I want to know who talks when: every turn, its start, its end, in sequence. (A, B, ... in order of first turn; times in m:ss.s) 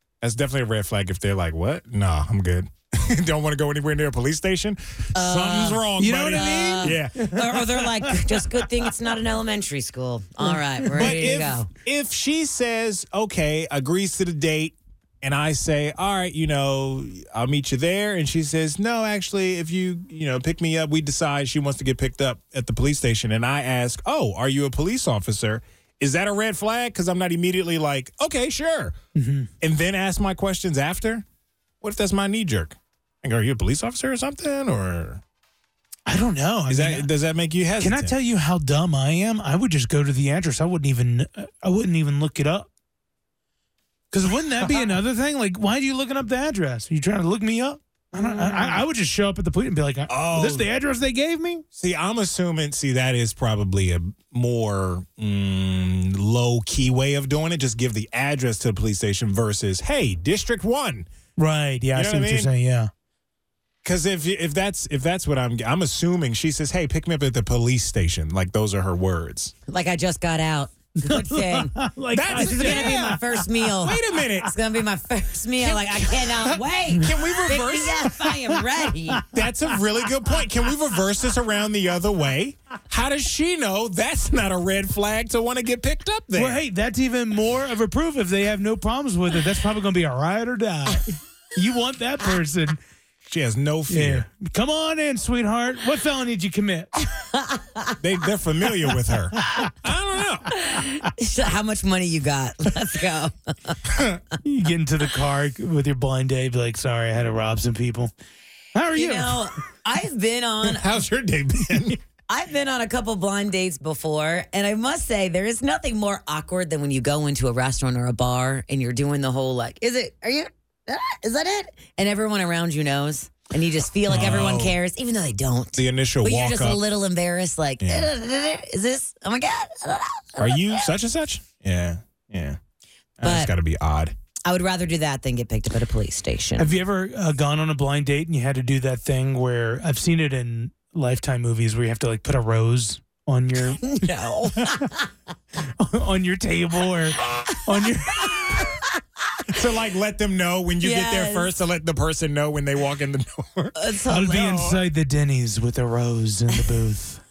0:00.2-0:07.3 A
0:05.1-0:11.7 B
0:06.0-0:08.5 C
0:10.4-0:11.5 C
0:10.9-0:29.0 A
0:29.1-0:29.5 C
0:29.6-0:31.2 A
0:31.8-0:35.2 A
0:36.1-0:37.1 C
0:36.7-0:38.2 A
0:37.8-0:42.7 C
0:44.1-0:51.6 C
0:44.6-0:44.9 A
0:50.1-0:50.7 A
0:51.7-1:01.1 A
1:01.4-1:02.9 C
1:01.9-1:02.5 A
1:03.8-1:09.5 A
1:09.7-1:11.7 B
1:11.0-1:13.4 C
1:12.1-1:14.5 A
1:12.3-1:19.2 B
1:15.6-1:16.4 A
1:16.9-1:17.4 C
1:17.0-1:18.1 A
1:19.3-1:26.6 A
1:26.3-1:32.8 C
1:33.2-1:34.3 A
1:33.9-1:36.9 C
1:37.2-1:38.0 B
1:38.0-1:40.5 A
1:40.5-1:43.8 B
1:43.9-1:44.2 A
1:44.4-1:48.1 C
1:48.7-1:49.4 C
1:48.9-1:50.8 B
1:50.6-1:52.0 A
1:52.3-2:10.9 B
2:04.1-2:04.8 A
2:05.7-2:06.8 A
2:07.8-2:08.1 A
2:10.4-2:12.6 A
2:13.2-2:14.1 A
2:13.2-2:13.5 B
2:14.4-2:16.7 B
2:16.6-2:23.9 C
2:23.7-2:25.1 B
2:25.6-2:28.6 C
2:28.2-2:28.8 B
2:29.5-2:34.8 A
2:30.8-2:31.5 B
2:33.8-2:34.7 B
2:34.1-2:37.2 C